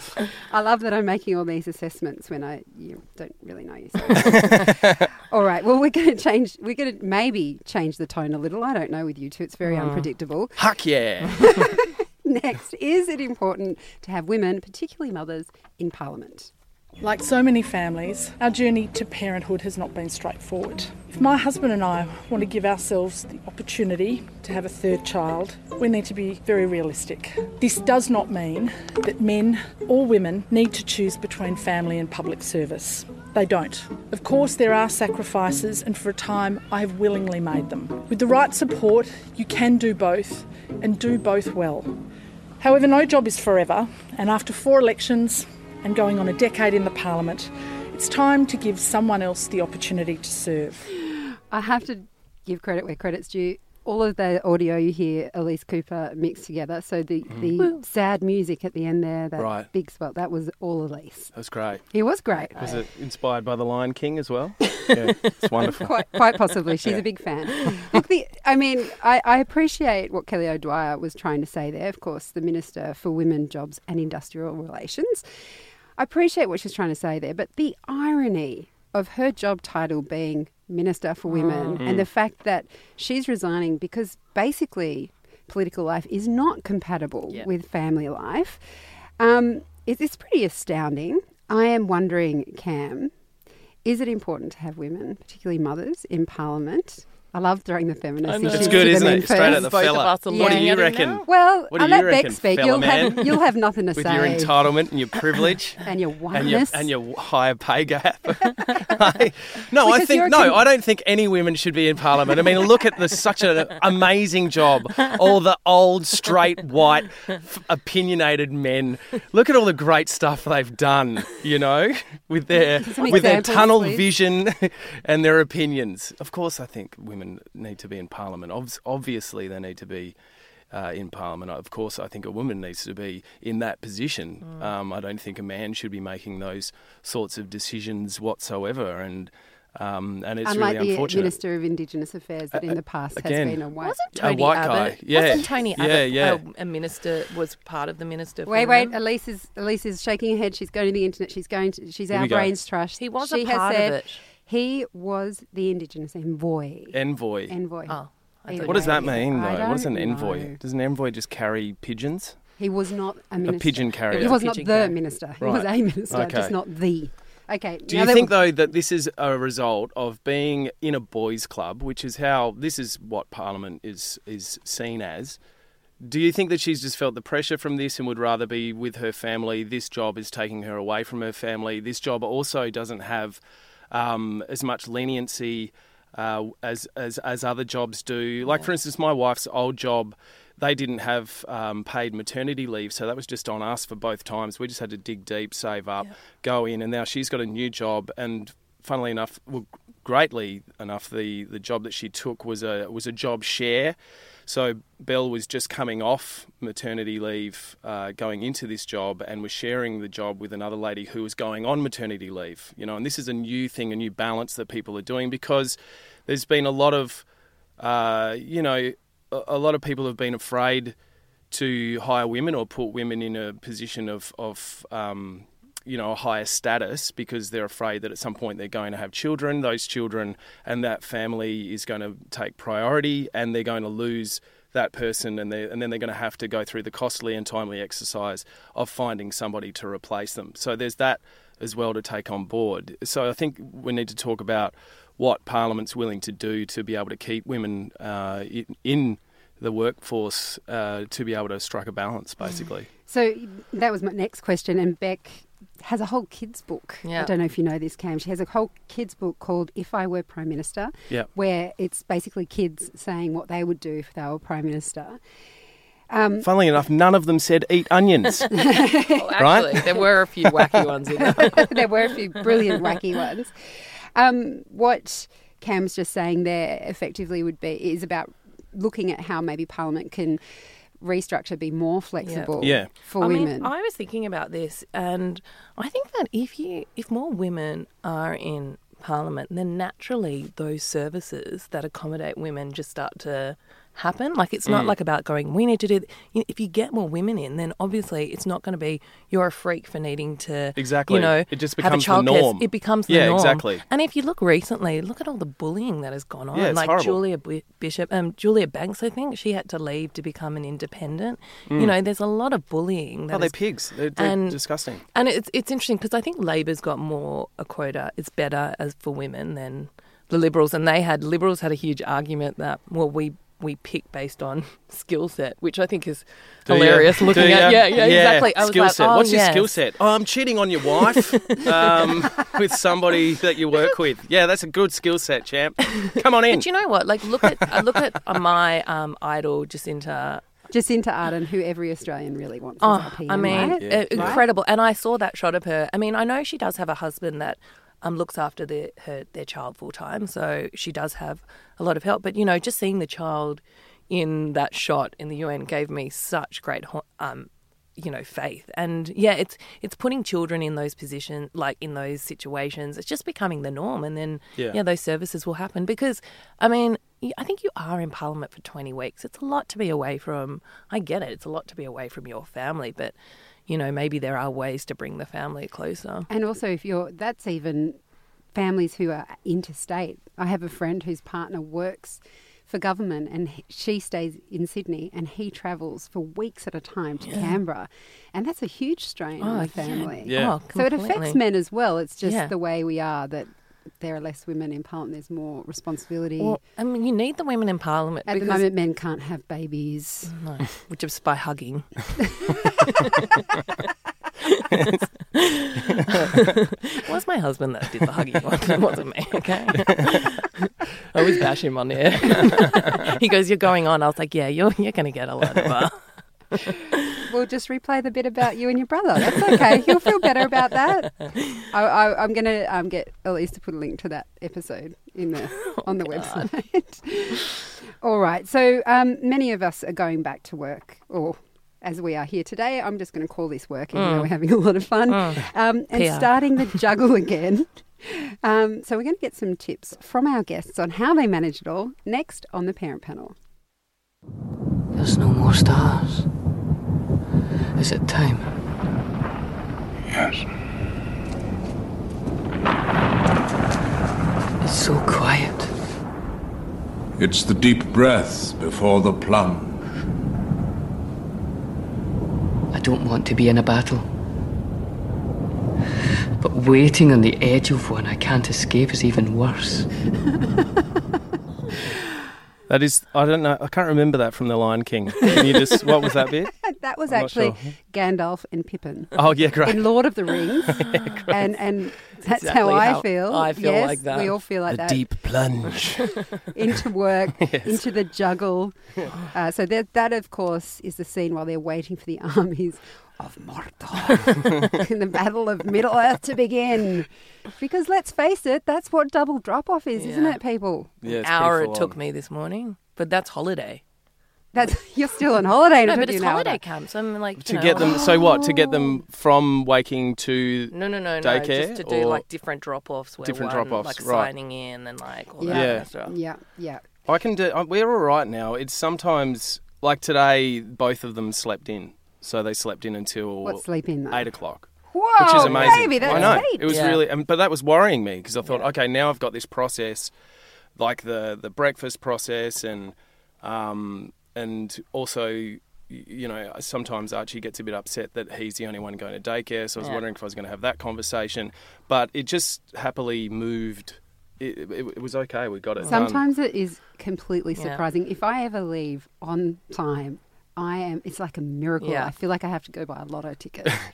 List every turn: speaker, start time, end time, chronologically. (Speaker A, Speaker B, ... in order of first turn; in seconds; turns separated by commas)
Speaker A: 0.2-10.6, Speaker B: 4.1-5.1, Speaker C: 9.7-10.1, Speaker B: 10.6-11.7, Speaker A: 11.3-16.5, Speaker D: 17.0-41.9, Speaker D: 42.6-50.9, Speaker A: 51.0-61.3, Speaker B: 59.4-59.7, Speaker B: 61.4-61.9, Speaker A: 61.9-62.8, Speaker B: 62.6-66.1, Speaker A: 65.8-75.2, Speaker A: 76.0-88.6, Speaker C: 81.3-81.8, Speaker B: 81.8-82.1, Speaker A: 89.2-93.1, Speaker A: 93.8-100.7, Speaker C: 98.3-101.2, Speaker B: 98.5-103.4, Speaker A: 101.2-104.5, Speaker B: 104.0-130.2, Speaker A: 105.8-106.9, Speaker A: 109.8-110.6, Speaker A: 122.8-124.1, Speaker B: 130.7-141.3, Speaker A: 140.4-143.9, Speaker B: 142.6-143.6, Speaker C: 143.8-148.9, Speaker B: 144.1-146.4, Speaker A: 148.5-157.0, Speaker B: 152.1-152.6, Speaker C: 153.0-154.2, Speaker B: 156.9-157.6, Speaker A: 157.5-160.6, Speaker C: 157.9-159.2, Speaker B: 158.7-162.4, Speaker A: 162.6-168.4, Speaker B: 163.4-164.4, Speaker C: 164.1-165.0, Speaker B: 165.4-166.5, Speaker B: 167.9-175.4, Speaker B: 176.0-183.4, Speaker B: 183.9-217.2, Speaker B: 217.8-220.9, Speaker B: 221.5-252.9, Speaker A: 253.1-265.2, Speaker C: 257.0-257.3, Speaker A: 266.1-266.5, Speaker B: 266.4-268.8, Speaker A: 268.5-269.2, Speaker C: 269.1-271.9, Speaker B: 269.4-270.9, Speaker A: 271.2-273.5, Speaker C: 272.5-272.9, Speaker A: 274.2-280.4, Speaker A: 281.0-283.7, Speaker C: 282.2-282.5, Speaker B: 282.6-282.9, Speaker C: 283.2-313.6, Speaker B: 294.7-294.9, Speaker B: 300.8-303.8, Speaker B: 306.5-307.2, Speaker B: 313.3-315.0, Speaker C: 314.2-314.6, Speaker C: 315.1-329.8, Speaker B: 326.7-336.7, Speaker C: 331.0-332.2, Speaker C: 336.5-340.4, Speaker A: 340.7-344.4, Speaker C: 342.8-373.1, Speaker B: 343.4-344.4, Speaker C: 373.7-376.3, Speaker A: 376.3-378.0, Speaker A: 378.5-396.6, Speaker C: 387.3-387.6, Speaker C: 389.4-391.4, Speaker B: 390.3-390.6, Speaker C: 392.2-392.5, Speaker C: 396.4-398.6, Speaker A: 398.3-400.3, Speaker C: 400.3-403.2, Speaker C: 404.4-404.7, Speaker C: 405.3-410.5, Speaker C: 411.1-416.0, Speaker A: 417.1-443.4, Speaker C: 425.6-426.5, Speaker C: 433.9-434.3, Speaker C: 435.1-436.8, Speaker E: 444.9-446.3, Speaker E: 447.8-448.5, Speaker E: 454.6-455.7, Speaker F: 457.2-459.6, Speaker E: 462.7-464.1, Speaker E: 466.4-469.9, Speaker B: 472.7-477.7, Speaker A: 476.6-485.1, Speaker B: 479.2-479.9, Speaker B: 480.7-481.3, Speaker C: 482.3-484.3, Speaker B: 484.7-486.2, Speaker A: 486.5-488.8, Speaker B: 487.4-487.8, Speaker A: 489.3-500.9, Speaker C: 500.0-500.4, Speaker B: 501.0-502.0, Speaker C: 501.1-503.8, Speaker A: 504.5-506.6, Speaker C: 505.8-508.1, Speaker B: 507.4-512.2, Speaker A: 507.8-509.0, Speaker C: 510.7-516.1, Speaker B: 513.2-514.3, Speaker A: 515.4-516.8, Speaker B: 515.5-515.9, Speaker B: 517.1-530.1, Speaker A: 523.4-524.3, Speaker A: 524.9-526.7, Speaker C: 525.4-527.0, Speaker B: 530.8-546.2, Speaker C: 545.8-546.1, Speaker A: 545.9-553.8, Speaker C: 547.6-547.8, Speaker C: 551.8-552.1